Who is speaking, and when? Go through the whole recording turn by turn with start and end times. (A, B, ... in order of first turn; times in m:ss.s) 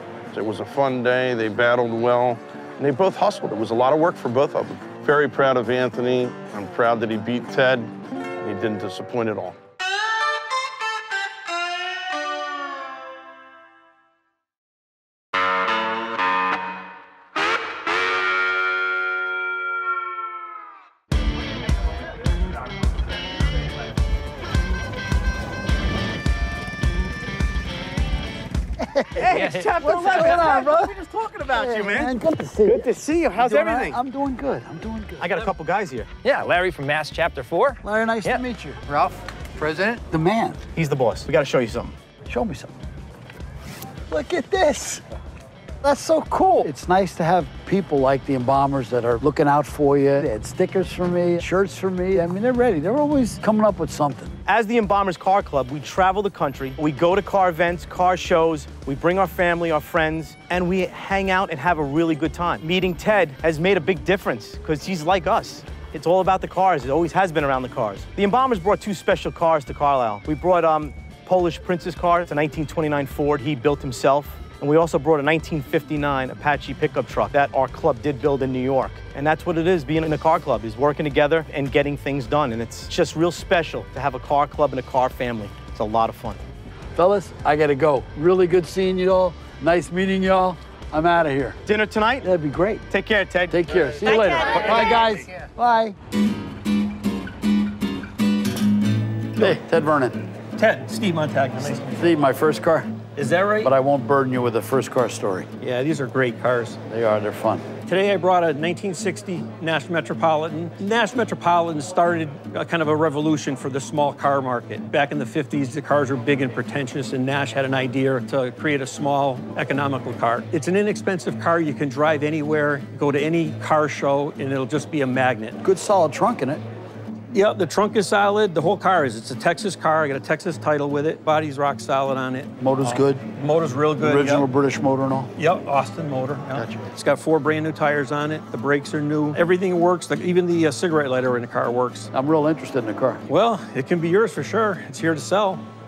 0:00.3-0:09.6 A
0:28.8-0:31.0 B
0:29.2-0:34.0 C
0:29.3-0:30.4 D
0:31.5-0:35.5 B
0:35.2-0:36.1 C
0:36.4-0:37.8 D
0:37.8-0:38.8 B
0:38.2-0:39.1 C
0:39.6-0:40.6 B
0:40.8-0:42.0 C
0:42.3-0:42.7 B
0:44.1-0:45.0 B
0:45.8-0:54.4 B
0:54.5-1:26.4 C
1:27.0-1:31.6 B
1:31.7-1:32.3 C
1:32.2-1:32.9 B
1:32.9-1:34.9 C
1:33.5-1:36.0 B
1:39.4-1:40.2 B
1:40.6-1:42.2 E
1:41.9-1:42.9 B
1:43.2-1:43.7 E
1:43.6-1:45.5 B
1:45.6-1:46.8 E
1:46.9-1:47.6 B
1:47.9-2:05.6 E
2:05.6-2:06.6 B
2:07.3-2:14.5 E
2:12.6-2:13.2 B
2:14.0-2:15.3 B
2:15.4-2:22.1 E
2:16.5-2:16.8 B
2:22.1-2:23.2 B
2:23.3-2:25.6 E